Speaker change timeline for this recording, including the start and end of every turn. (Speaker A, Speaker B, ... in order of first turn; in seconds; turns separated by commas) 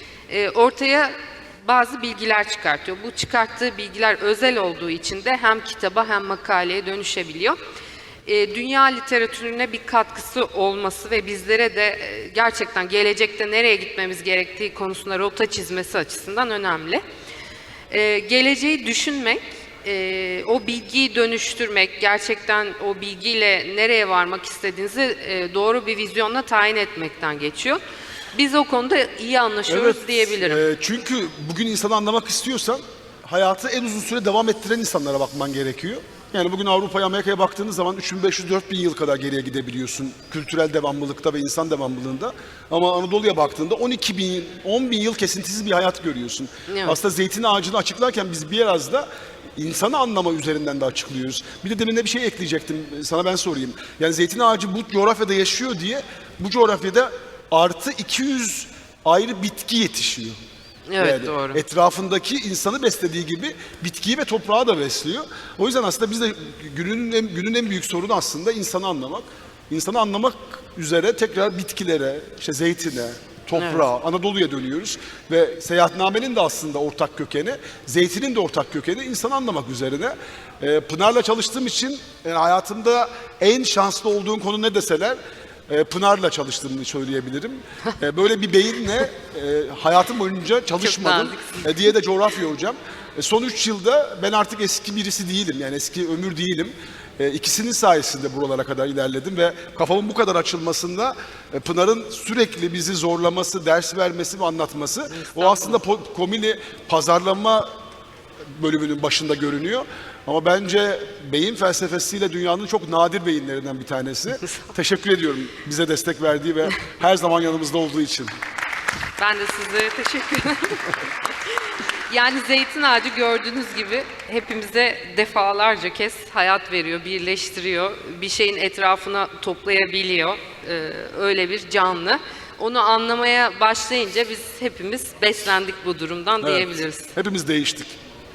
Speaker A: 0.3-7.6, Speaker A: 8.2-17.0, Speaker A: 17.9-27.8, Speaker A: 28.3-30.6, Speaker B: 29.7-60.4, Speaker A: 46.7-47.0, Speaker A: 60.9-61.6, Speaker B: 61.0-85.2, Speaker A: 73.5-73.8, Speaker B: 85.7-107.7, Speaker A: 90.8-91.8, Speaker A: 105.1-105.8, Speaker B: 108.5-118.3, Speaker A: 119.2-121.0, Speaker A: 122.1-137.1, Speaker B: 136.4-138.0